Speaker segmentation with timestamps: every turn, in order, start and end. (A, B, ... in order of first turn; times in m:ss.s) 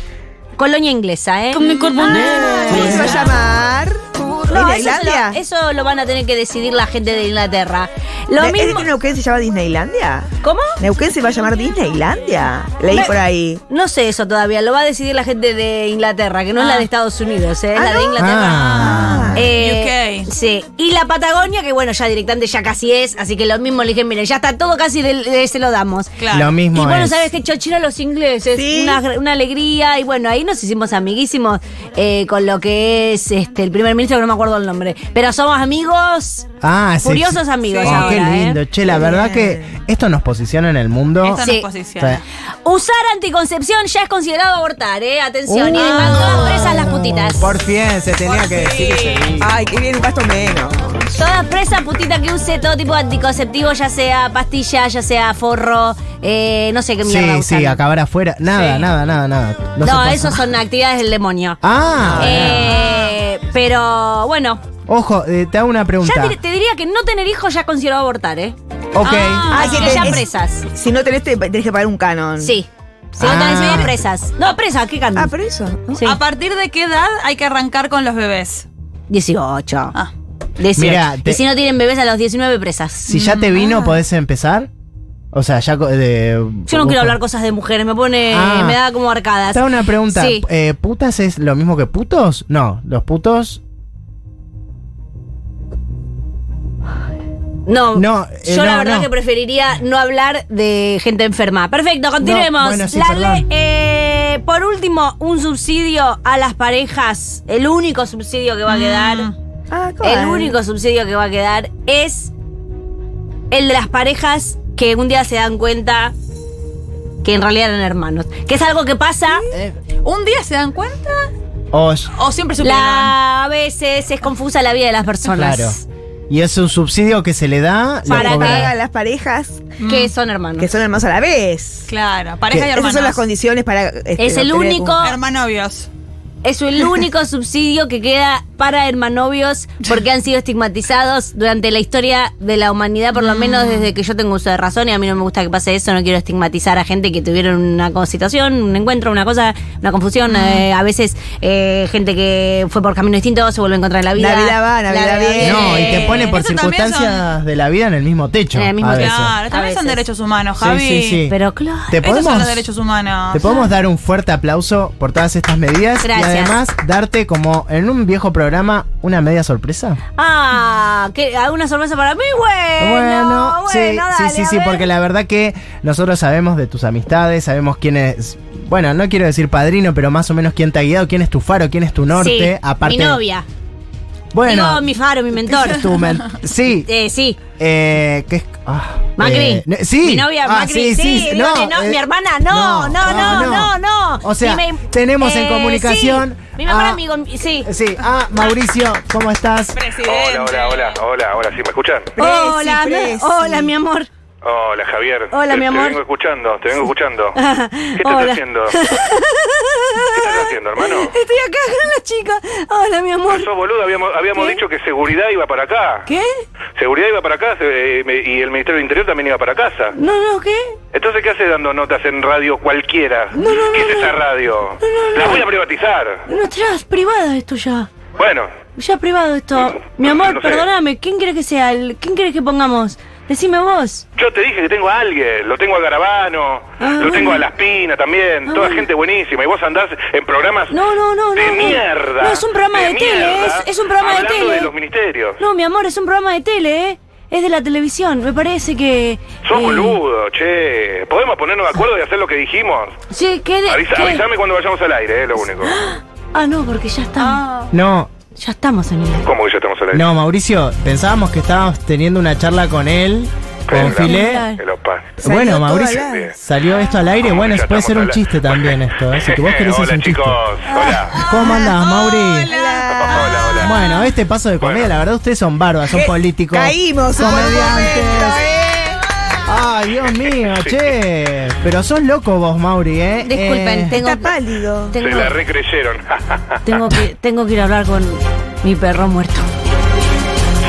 0:00.6-0:03.4 A
0:01.7-0:03.3 B
0:02.0-0:03.2 C
0:02.6-0:05.4 D
0:04.2-0:08.9 A
0:08.4-0:13.6 D
0:10.4-0:10.7 A
0:13.7-0:18.7 A
0:16.5-0:16.9 B
0:17.7-0:18.2 D
0:18.2-0:19.4 C
0:18.4-0:20.3 B
0:18.8-0:19.4 D
0:19.3-0:26.1 A
0:26.2-0:26.5 B
0:26.3-0:27.3 C
0:26.7-0:36.5 A
0:28.5-0:29.0 D
0:36.6-0:41.4 C
0:37.0-0:38.6 A
0:37.6-0:38.2 B
0:38.8-0:39.7 D
0:41.2-0:42.2 B
0:41.4-0:41.6 A
0:42.6-0:47.5 A
0:45.5-0:49.5 C
0:45.7-0:46.8 B
0:48.2-0:49.4 B
0:49.4-0:51.1 D
0:51.1-0:57.8 A
0:57.0-1:00.5 C
0:58.6-0:58.9 B
0:59.8-1:01.6 A
1:01.6-1:02.8 C
1:02.0-1:02.8 D
1:02.2-1:04.6 A
1:02.6-1:03.1 B
1:04.9-1:06.4 C
1:06.0-1:08.5 A
1:08.9-1:10.2 C
1:09.0-1:10.1 B
1:09.5-1:12.6 D
1:09.5-1:10.6 A
1:12.4-1:15.3 A
1:13.2-1:14.0 C
1:13.6-1:13.8 B
1:15.1-1:16.1 D
1:15.9-1:16.2 A
1:16.0-1:18.7 B
1:19.1-1:20.0 A
1:20.6-1:24.0 A
1:20.8-1:21.4 C
1:23.1-1:24.7 C
1:23.1-1:23.8 B
1:25.3-1:27.2 C
1:26.7-1:30.4 A
1:28.3-1:28.8 C
1:29.5-1:33.6 C
1:37.6-1:49.3 A
1:37.9-1:39.1 C
1:42.2-1:43.5 C
1:48.7-1:49.3 B
1:49.7-1:50.6 D
1:50.0-1:52.3 A
1:53.5-1:56.1 A
1:57.2-1:59.4 A
1:59.5-1:59.8 C
2:00.0-2:01.3 B
2:01.7-2:02.1 C
2:02.1-2:03.1 B
2:02.6-2:05.8 A
2:05.3-2:08.7 C
2:08.0-2:08.7 A
2:08.1-2:09.7 D
2:09.8-2:10.1 B
2:09.8-2:10.8 A
2:10.6-2:11.9 D
2:11.8-2:13.2 B
2:12.5-2:15.1 D
2:14.2-2:15.2 A
2:15.0-2:15.9 B
2:16.4-2:36.4 A
2:23.2-2:23.9 B
2:30.3-2:30.6 B
2:34.1-2:36.0 D
2:35.4-2:39.4 C
2:35.4-2:37.2 B
2:38.5-2:40.0 A
2:38.9-2:41.2 B
2:40.6-2:41.4 C
2:41.3-2:42.0 A
2:41.9-2:42.6 C
2:42.0-2:43.6 B
2:43.3-2:50.0 C
2:46.0-2:46.6 A
2:50.2-2:54.9 A
2:52.8-3:03.2 C
3:02.1-3:03.4 A
3:04.3-3:04.9 C
3:04.4-3:06.0 A
3:05.4-3:06.9 C
3:06.7-3:07.4 A
3:07.6-3:17.0 C
3:09.2-3:17.7 A
3:17.6-3:19.8 C
3:18.3-3:18.6 B
3:19.7-3:21.0 B
3:20.0-3:22.1 E
3:22.2-3:23.7 D
3:22.2-3:24.1 A
3:24.4-3:27.4 E
3:25.3-3:26.0 A
3:27.3-3:33.5 A
3:28.0-3:28.8 E
3:30.1-3:31.1 E
3:33.3-3:36.0 E
3:34.3-3:34.6 A
3:36.0-3:36.4 A
3:36.8-3:39.9 E
3:39.9-3:40.8 A
3:40.9-3:46.2 E
3:43.3-3:44.2 A
3:44.8-3:45.4 A
3:46.3-3:47.9 A
3:48.2-3:48.5 E
3:48.8-3:54.0 A
3:49.9-3:50.7 E
3:54.2-4:00.8 E
3:56.8-3:57.5 A
3:58.5-3:58.9 A
4:00.7-4:04.7 A
4:01.3-4:05.4 E
4:05.4-4:10.0 A
4:09.4-4:12.9 E
4:13.1-4:14.2 A
4:13.6-4:15.7 E
4:15.6-4:17.7 A
4:17.7-4:18.1 C
4:18.3-4:19.3 A
4:19.2-4:20.1 E
4:19.9-4:24.5 C
4:23.7-4:25.2 E
4:23.7-4:24.6 A
4:25.2-4:30.4 C
4:25.2-4:26.3 D
4:26.0-4:26.4 E
4:26.9-4:31.2 E
4:30.8-4:33.3 B
4:31.1-4:32.5 C
4:31.4-4:31.7 D
4:32.5-4:33.7 D
4:33.0-4:33.7 E
4:33.6-4:38.5 C
4:34.6-4:35.0 E
4:35.9-4:39.4 D
4:39.5-4:44.0 C
4:40.1-4:40.8 E
4:43.2-4:44.4 A
4:43.9-4:45.0 D
4:44.9-4:45.4 A
4:45.0-4:46.6 E
4:46.6-4:49.4 A